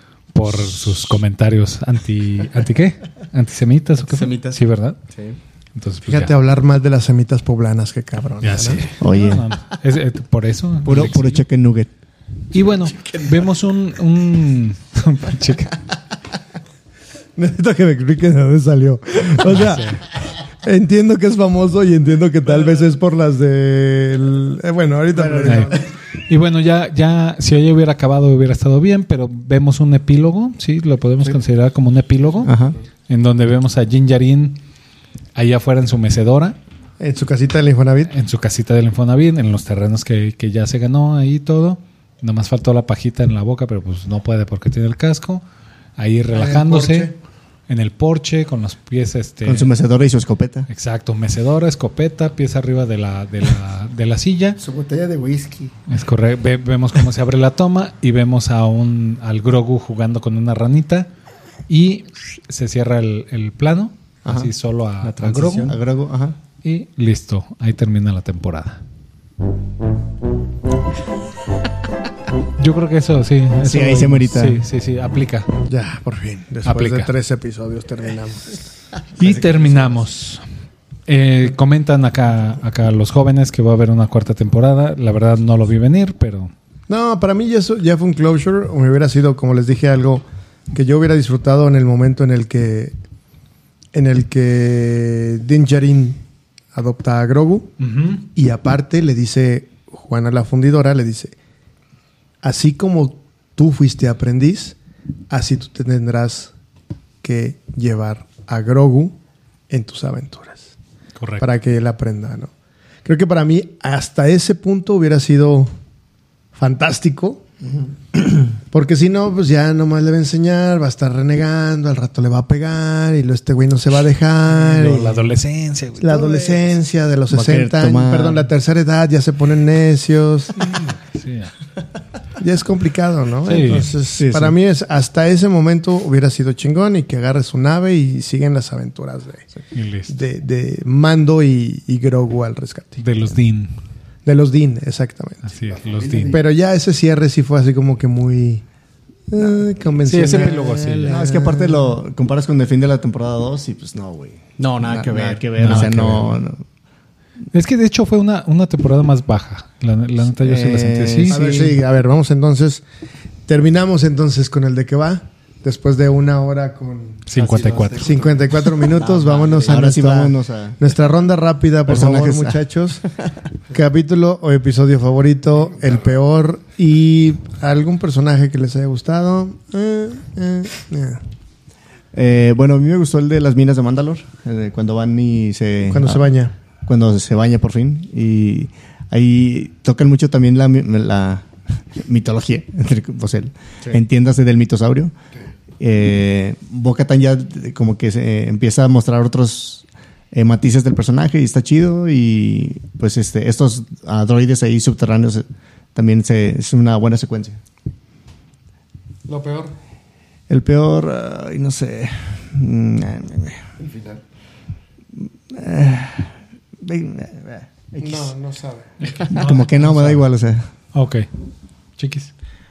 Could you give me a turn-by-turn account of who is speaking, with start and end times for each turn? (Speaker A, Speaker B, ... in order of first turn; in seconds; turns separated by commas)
Speaker A: 0.3-5.0, Speaker B: 4.0-5.4, Speaker A: 5.7-6.4, Speaker C: 6.0-8.8, Speaker A: 8.4-11.4, Speaker D: 9.0-9.5, Speaker D: 10.8-11.9, Speaker A: 12.5-15.8, Speaker B: 12.9-13.4, Speaker C: 17.4-20.1, Speaker A: 19.4-20.0, Speaker C: 20.6-25.9, Speaker D: 25.3-25.6, Speaker A: 25.4-25.8, Speaker A: 26.3-32.5, Speaker E: 32.2-32.7, Speaker D: 32.4-32.8, Speaker A: 33.1-34.6, Speaker A: 35.4-36.6, Speaker C: 37.0-38.1, Speaker A: 38.1-45.4, Speaker A: 46.0-47.1, Speaker C: 46.3-47.1, Speaker A: 47.7-49.7, Speaker D: 49.4-50.7, Speaker A: 50.7-54.6, Speaker D: 54.6-55.7, Speaker A: 55.9-61.1, Speaker A: 61.7-65.8, Speaker D: 64.2-64.5, Speaker D: 65.0-66.4, Speaker B: 65.2-65.7, Speaker A: 66.6-68.8, Speaker A: 72.6-75.5, Speaker D: 73.6-74.6, Speaker C: 75.7-78.6, Speaker A: 76.7-77.1, Speaker A: 79.2-80.4, Speaker B: 79.2-79.8, Speaker A: 81.1-86.5, Speaker C: 86.9-92.9, Speaker C: 93.9-96.2, Speaker C: 96.7-97.7, Speaker A: 97.8-98.2, Speaker C: 98.3-101.3, Speaker C: 102.4-104.8, Speaker C: 105.3-106.5, Speaker C: 107.2-109.2, Speaker C: 109.7-110.7, Speaker A: 111.2-111.4, Speaker C: 111.4-112.5, Speaker C: 113.0-115.7, Speaker C: 116.5-117.4, Speaker C: 118.7-125.3, Speaker A: 124.5-126.7, Speaker C: 126.0-130.7, Speaker D: 127.3-128.5, Speaker A: 131.1-131.5, Speaker C: 132.4-139.6, Speaker A: 133.4-134.0, Speaker D: 134.1-134.6, Speaker A: 139.7-140.2, Speaker C: 140.1-143.0, Speaker A: 143.0-143.7, Speaker C: 144.2-145.5, Speaker A: 145.4-146.4, Speaker E: 145.7-146.4, Speaker C: 146.3-148.6, Speaker C: 149.3-151.9, Speaker A: 150.0-151.3, Speaker D: 151.1-156.6, Speaker B: 154.6-156.0, Speaker A: 155.6-156.4, Speaker A: 157.5-161.7, Speaker D: 160.4-161.8, Speaker C: 161.3-162.8, Speaker C: 163.5-167.3, Speaker A: 167.3-168.2, Speaker E: 167.3-169.5, Speaker C: 168.0-173.1, Speaker D: 169.0-170.8, Speaker D: 171.9-172.6, Speaker C: 173.7-181.2, Speaker D: 182.1-186.3, Speaker C: 185.9-186.6, Speaker D: 186.9-195.1, Speaker D: 195.8-207.6, Speaker C: 209.3-209.7, Speaker D: 210.5-213.6, Speaker E: 213.8-214.2, Speaker D: 215.2-218.3, Speaker C: 218.0-218.9, Speaker A: 219.0-220.2, Speaker D: 219.3-220.7, Speaker A: 220.9-221.3, Speaker A: 222.0-222.3